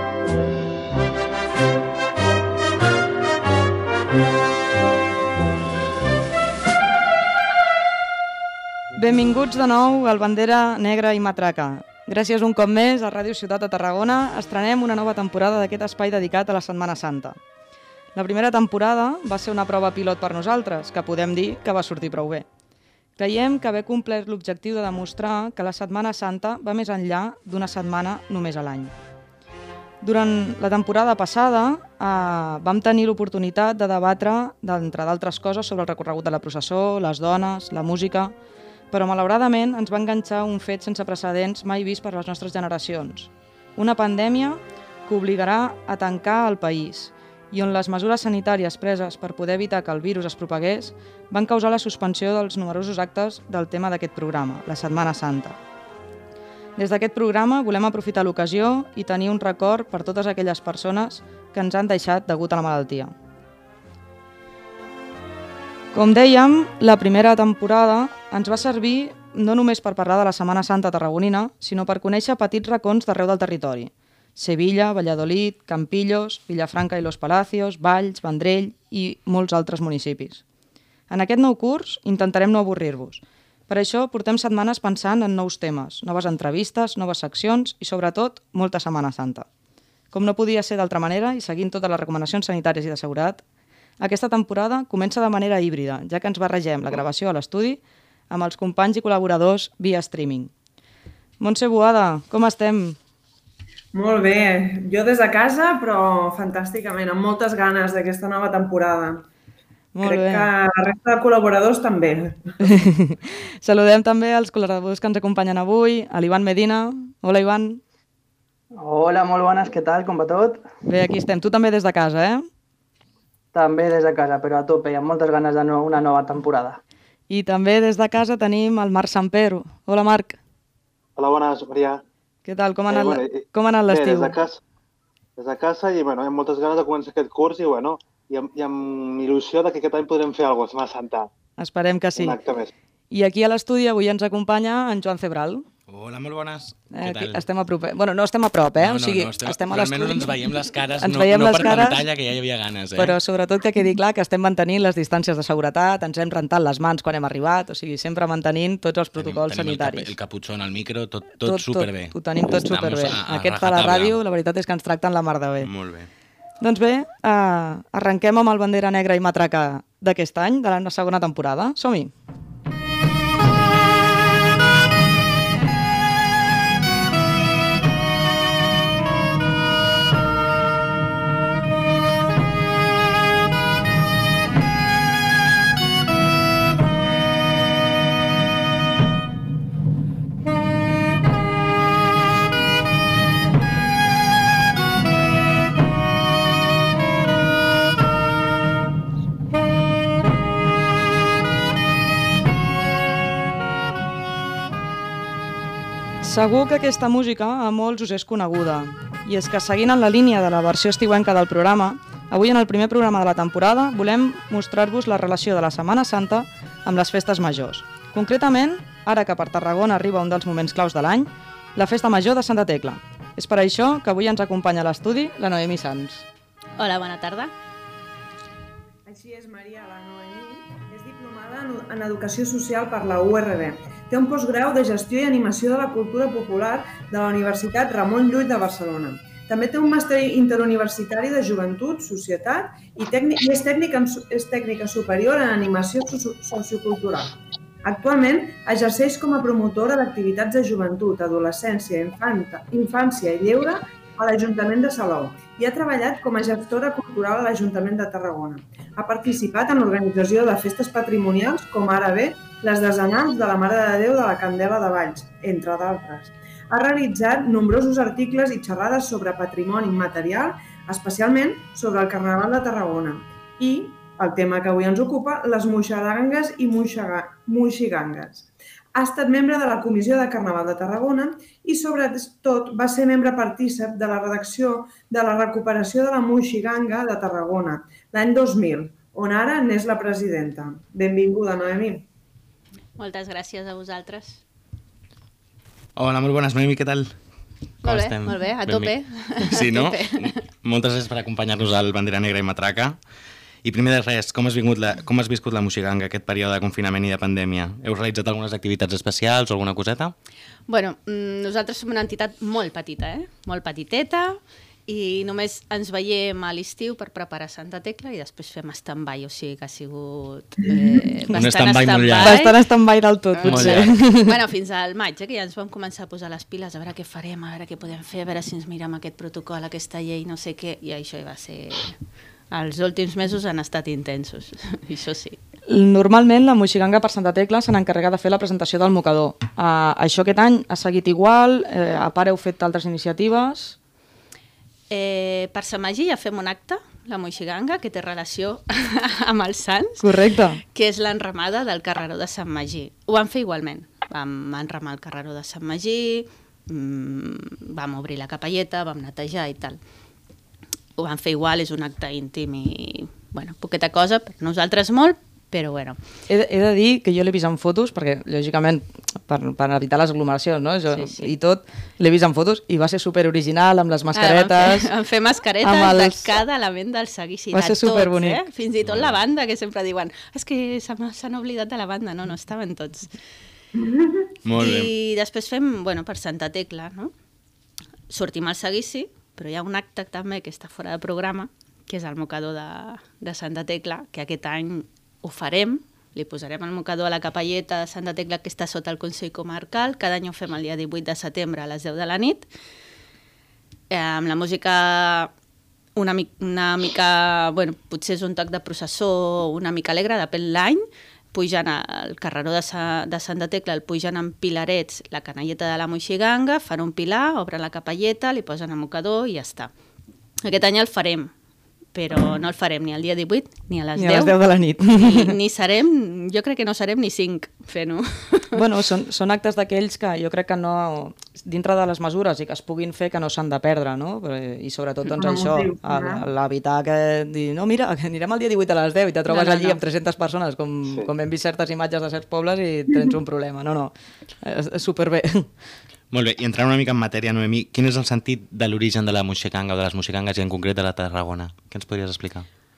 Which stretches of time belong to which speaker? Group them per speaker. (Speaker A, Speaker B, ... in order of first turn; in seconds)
Speaker A: 8.9-17.4, 18.1-22.5, 23.2-28.9, 30.0-38.3, 38.9-55.6, 56.8-63.1, 65.9-80.4, 81.1-89.5, 90.1-93.4, 94.0-100.5, 101.4-103.0, 109.9-110.5, 112.6-117.8, 120.8-122.5, 127.3-130.4, 132.4-134.3, 141.6-142.4, 143.1-145.7, 146.9-150.3, 151.0-152.0, 152.9-160.1, 161.4-165.7, 166.6-172.1, 206.2-226.3, 322.2-324.4, 335.7-343.8, 350.0-350.6, 366.3-374.9, 375.6-376.2, 377.5-378.4, 424.0-425.3, 428.5-445.5
Speaker B: 103.9-109.2, 110.0-112.7, 229.1-292.1, 320.7-321.1, 383.8-384.3, 435.2-436.3
Speaker C: 118.8-120.7, 123.5-126.8
Speaker D: 131.2-132.0, 132.9-134.6, 135.4-141.3, 142.2-142.7
Speaker E: 145.9-147.4, 148.8-153.2, 159.2-164.2, 165.6-166.1, 296.0-297.2, 297.8-303.0, 303.6-310.1, 321.3-322.4, 323.5-324.0, 378.9-379.1, 384.4-384.9, 446.1-452.5
Speaker F: 226.8-227.5, 293.0-294.4, 297.8-300.4, 310.7-322.6, 323.3-335.4, 344.9-350.2, 350.7-359.8, 361.0-366.0, 370.9-371.3, 374.1-383.1, 384.6-387.1, 388.1-402.5, 403.9-405.3, 406.0-419.7, 420.4-421.3, 421.9-424.4, 424.9-428.6, 439.3-439.8